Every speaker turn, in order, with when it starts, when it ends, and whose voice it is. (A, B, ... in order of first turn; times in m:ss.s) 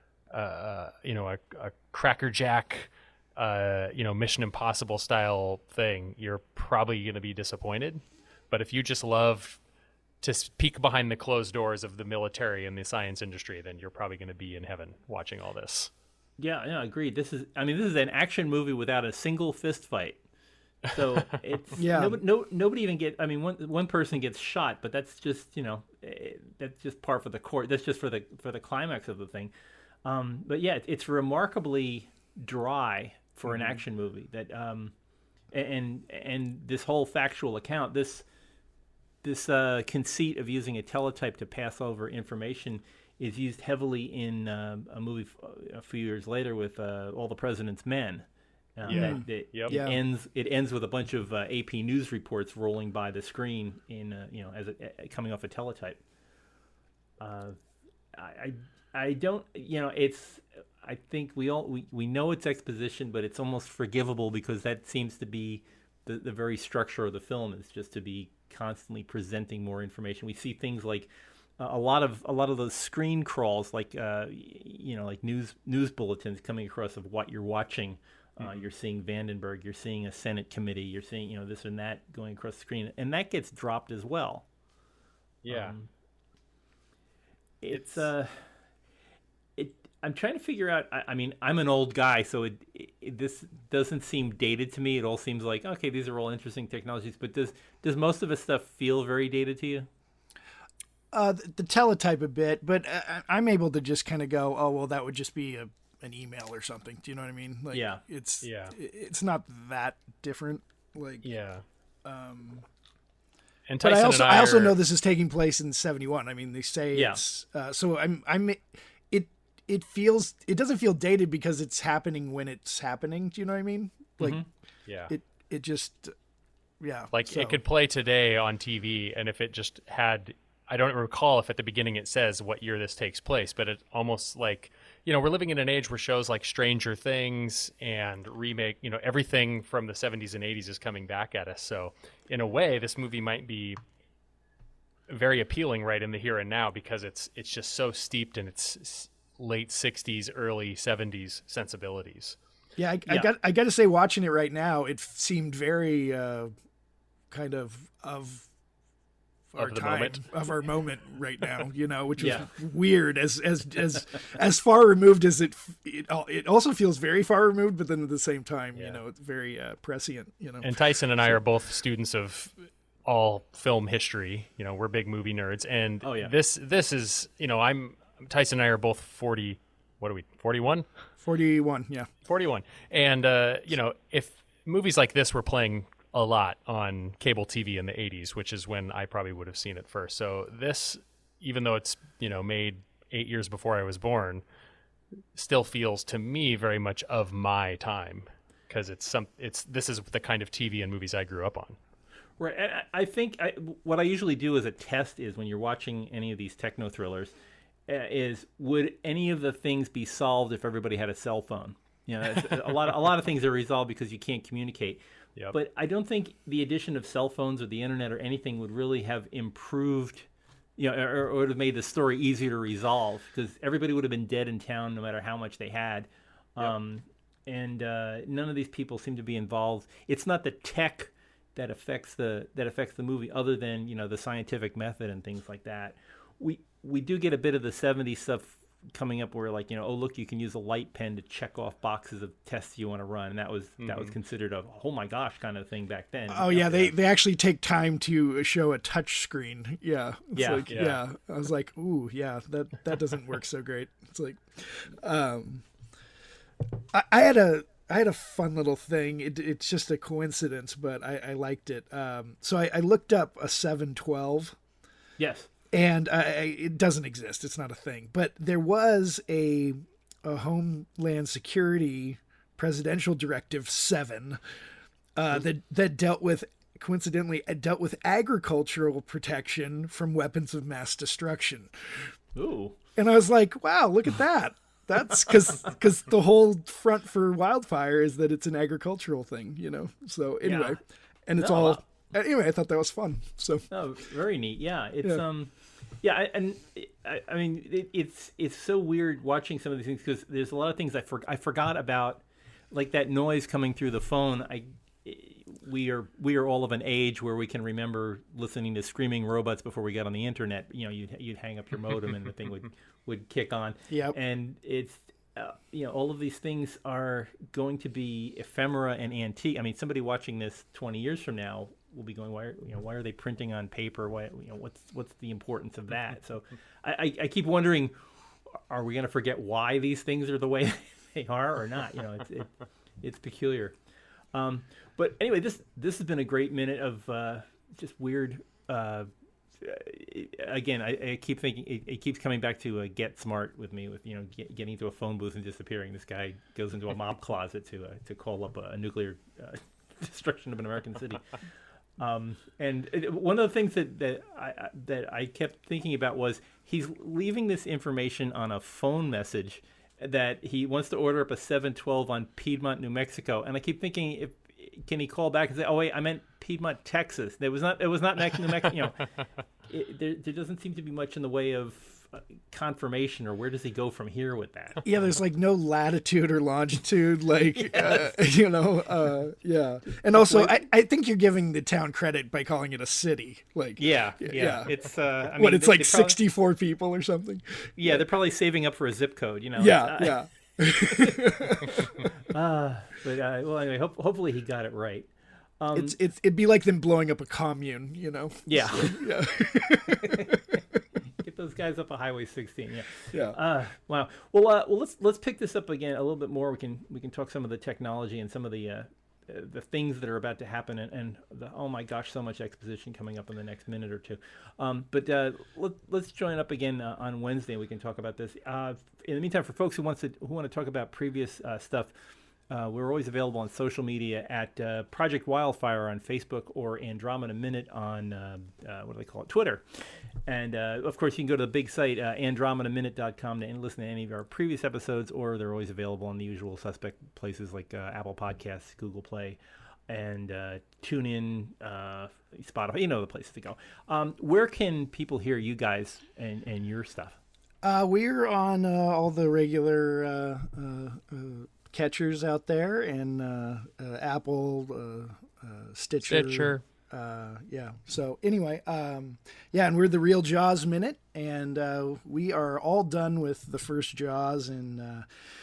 0:00.3-0:09.6 A
0:10.2-0:15.9 A
0:16.4-0:20.2 B
0:20.9-0:29.5 B
0:21.8-0:22.2 C
0:30.0-0:34.9 B
0:35.5-0:38.2 B
0:39.2-0:56.0 B
0:48.9-0:49.8 A
0:48.9-0:50.0 C
0:57.2-0:57.6 B
0:58.1-1:24.4 B
1:25.4-1:25.8 A
1:25.5-1:25.9 B
1:27.6-1:28.4 B
1:27.7-1:28.0 A
1:29.6-1:39.9 B
1:41.1-1:51.3 C
1:47.7-1:48.0 B
1:48.4-1:48.7 A
1:51.2-1:51.6 A
1:52.0-1:52.6 C
1:53.7-1:54.8 A
1:53.8-2:04.4 C
1:56.9-1:57.2 B
2:04.2-2:04.4 B
2:05.1-2:06.1 C
2:06.8-2:07.6 C
2:07.1-2:23.8 A
2:25.1-2:32.4 A
2:32.8-2:36.5 C
2:37.3-2:38.5 C
2:39.5-2:50.7 C
2:39.6-2:40.2 A
2:42.2-2:42.5 B
2:50.6-3:00.9 A
2:56.0-2:56.3 B
3:01.2-3:02.1 C
3:02.2-3:14.4 A
3:15.3-3:21.8 A
3:22.4-3:27.3 B
3:27.9-4:06.9 B
4:03.8-4:04.1 A
4:06.3-4:15.6 C
4:10.3-4:10.7 B
4:10.7-4:11.0 A
4:16.9-4:24.6 C
4:25.2-4:25.5 B
4:25.7-4:34.4 C
4:35.1-4:42.1 C
4:42.3-4:42.8 B
4:43.0-4:53.6 C
4:50.4-4:50.8 B
4:51.4-4:51.8 B
4:53.7-5:27.9 B
5:13.9-5:14.2 C
5:28.7-5:33.7 B
5:34.3-5:39.1 B
5:39.6-5:51.3 B
5:52.0-6:09.0 B
6:09.7-6:14.8 B
6:14.8-6:24.7 C
6:17.6-6:18.0 B
6:20.2-6:20.5 B
6:23.8-6:26.2 B
6:25.3-6:28.0 C
6:27.8-6:30.2 B
6:29.6-6:32.1 C
6:30.8-6:35.9 B
6:35.7-6:40.6 C
6:38.4-6:39.1 B
6:39.8-7:01.9 B
6:43.1-6:43.4 C
7:02.5-7:27.2 B
7:27.6-7:45.1 C
7:36.1-7:36.6 A